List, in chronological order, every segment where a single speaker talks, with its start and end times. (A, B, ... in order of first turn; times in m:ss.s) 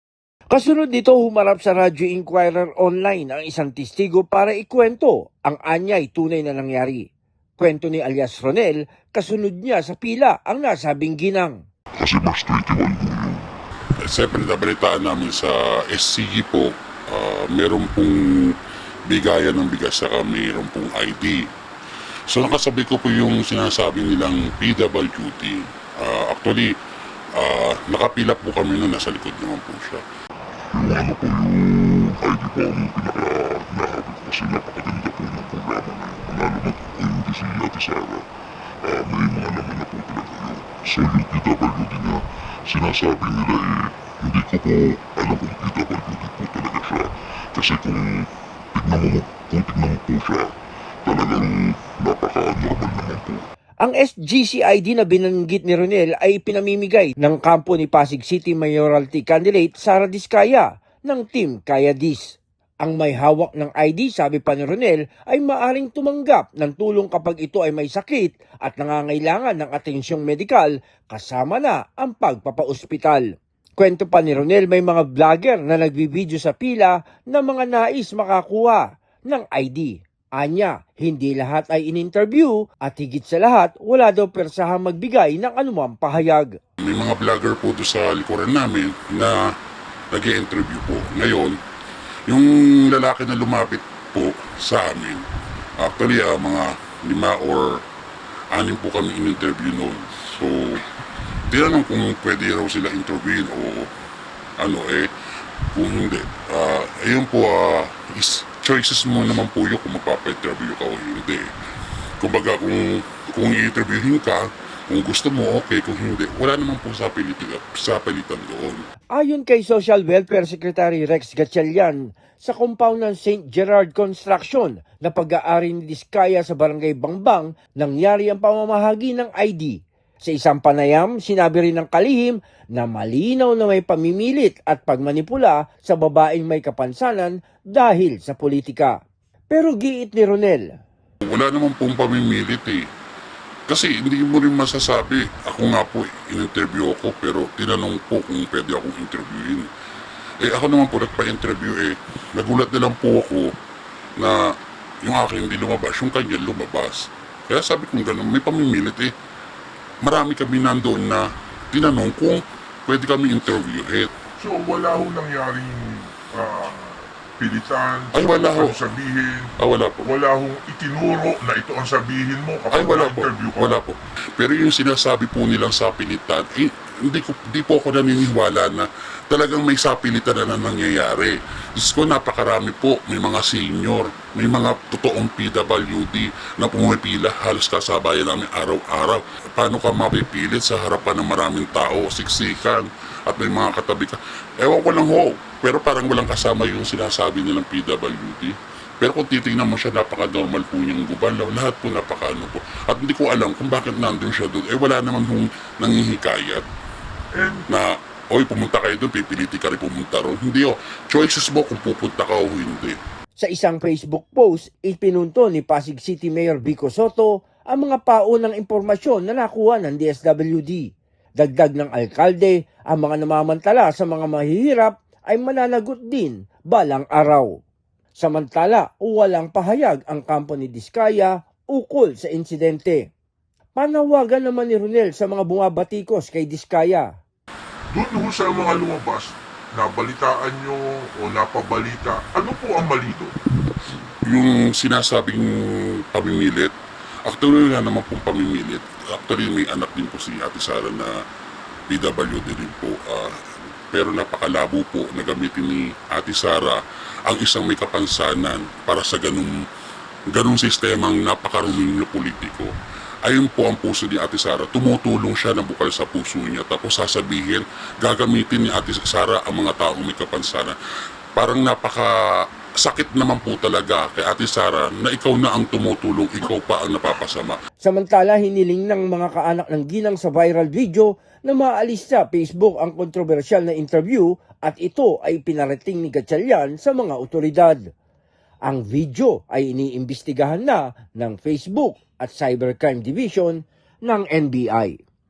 0:00.5-0:11.6 A
0:12.0-0:13.5 B
0:14.0-0:18.6 C
0:19.1-0:21.5 C
0:22.3-0:26.7 C
0:27.4-0:30.0 C
0:30.7-0:38.3 B
0:38.8-0:53.4 B
0:53.8-1:13.3 A
1:13.8-1:26.5 A
1:26.8-1:29.4 C
1:30.1-1:31.5 C
1:32.3-1:35.2 C
1:35.8-1:37.8 C
1:38.5-1:40.8 C
1:41.5-1:43.9 C
1:44.6-1:45.1 C
1:45.7-1:51.5 C
1:52.2-1:58.8 C
1:59.1-2:19.0 A
2:19.5-2:20.8 A
2:21.2-2:22.8 C
2:23.7-2:29.7 C
2:30.4-2:33.5 C
2:35.0-2:39.1 C
2:40.0-2:44.1 C
2:44.4-2:49.5 D
2:48.1-2:48.8 C
2:49.6-2:50.1 C
2:50.0-2:53.8 D
2:52.7-3:26.6 C
3:27.3-3:27.7 D
3:27.7-3:33.0 C
3:33.4-3:47.6 A
3:48.2-3:53.1 A
3:53.8-3:57.1 A
3:57.9-4:03.3 D
4:04.2-4:06.7 C
4:07.2-4:11.1 C
4:11.9-4:19.6 C
4:20.3-4:22.7 C
4:23.2-4:30.7 C
4:31.4-4:32.1 C
4:32.8-4:37.6 C
4:37.8-4:47.9 A
4:48.6-4:55.0 A